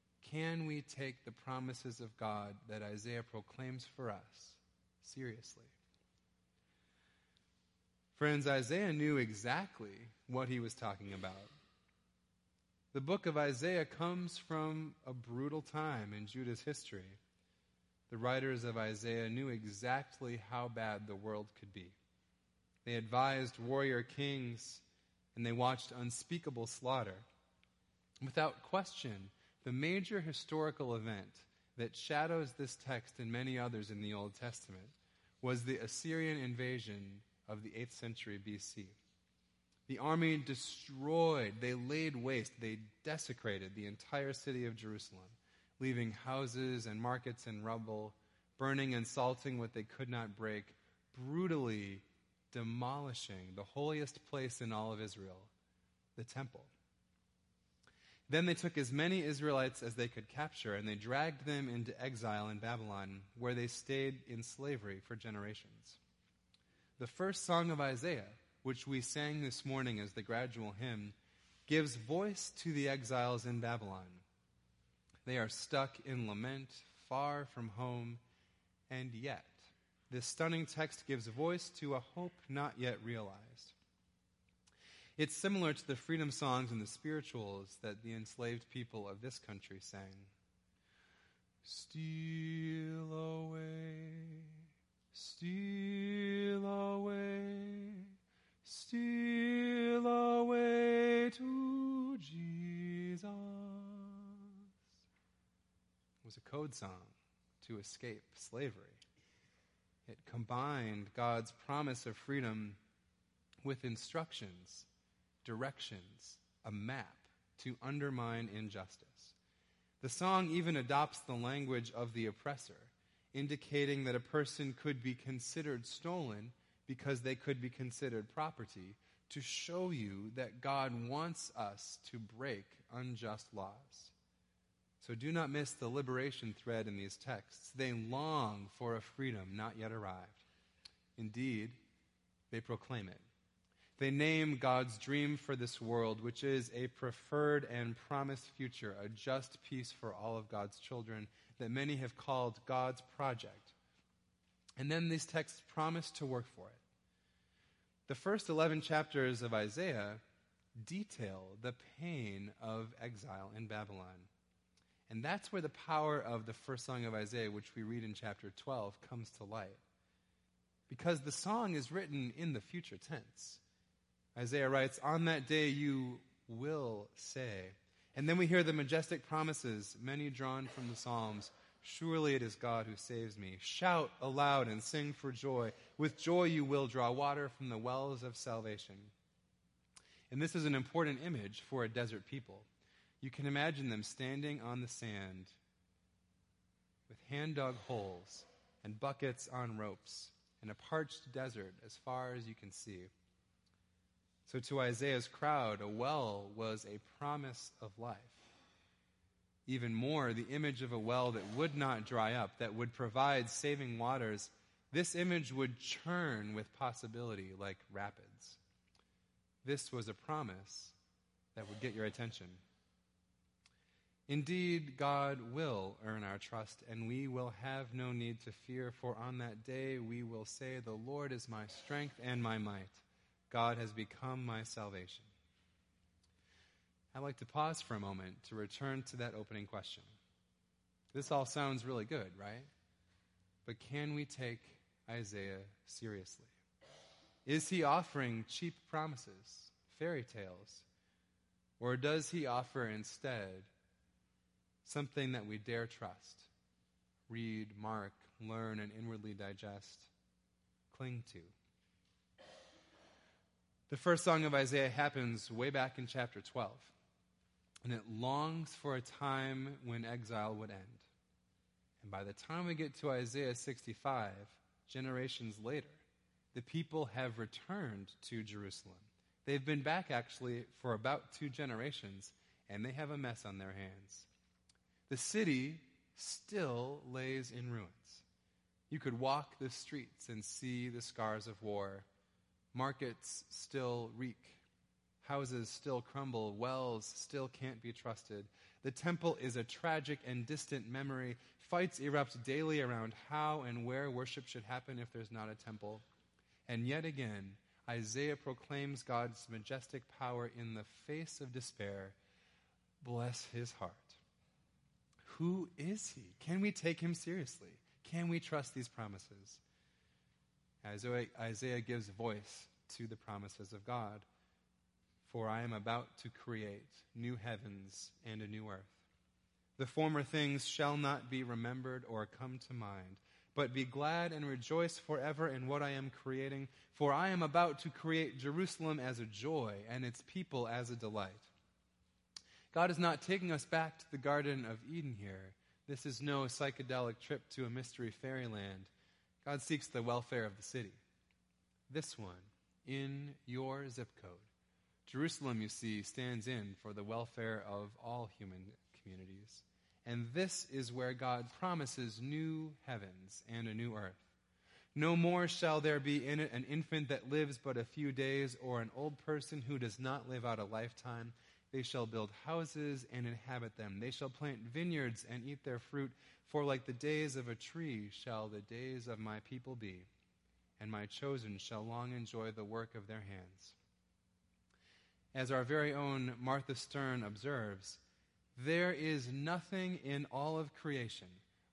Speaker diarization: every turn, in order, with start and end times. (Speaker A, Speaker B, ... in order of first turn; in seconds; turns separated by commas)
Speaker A: 0.2-5.7, Speaker A: 8.1-11.5, Speaker A: 12.9-17.2, Speaker A: 18.1-22.0, Speaker A: 22.9-27.3, Speaker A: 28.2-39.0, Speaker A: 39.9-55.5, Speaker A: 56.2-56.7, Speaker A: 58.3-66.0, Speaker A: 67.0-71.2, Speaker A: 71.7-74.2, Speaker A: 75.2-78.2, Speaker A: 78.9-83.8, Speaker A: 85.2-90.3, Speaker A: 91.6-104.7, Speaker A: 106.2-109.0, Speaker A: 110.1-112.8, Speaker A: 113.6-114.9, Speaker A: 115.4-119.4, Speaker A: 120.0-134.1, Speaker A: 135.0-140.4, Speaker A: 141.2-141.8, Speaker A: 142.5-143.2, Speaker A: 144.0-153.8, Speaker A: 154.8-156.8, Speaker A: 158.1-160.2, Speaker A: 160.8-164.3, Speaker A: 165.1-169.8, Speaker A: 170.9-173.6, Speaker A: 174.4-189.1, Speaker A: 190.3-192.7, Speaker A: 193.2-195.6, Speaker A: 197.1-203.1, Speaker A: 204.4-208.4, Speaker A: 209.7-218.6, Speaker A: 219.6-221.0, Speaker A: 221.6-222.6, Speaker A: 224.3-235.3, Speaker A: 237.1-240.1, Speaker A: 241.1-242.7, Speaker A: 243.7-246.5, Speaker A: 247.4-250.8, Speaker A: 251.8-253.7, Speaker A: 254.8-256.5, Speaker A: 257.3-260.1, Speaker A: 260.9-261.5, Speaker A: 263.9-266.9, Speaker A: 267.8-271.1, Speaker A: 272.0-284.3, Speaker A: 285.1-288.2, Speaker A: 288.9-292.1, Speaker A: 292.7-294.6, Speaker A: 295.2-306.0, Speaker A: 306.7-312.2, Speaker A: 313.0-314.2, Speaker A: 315.2-319.6, Speaker A: 320.8-324.3, Speaker A: 325.2-329.0, Speaker A: 329.8-341.5, Speaker A: 342.7-348.9, Speaker A: 349.4-351.0, Speaker A: 351.9-354.5, Speaker A: 355.1-364.3, Speaker A: 364.9-380.1, Speaker A: 380.8-383.8, Speaker A: 385.3-388.0, Speaker A: 388.6-391.4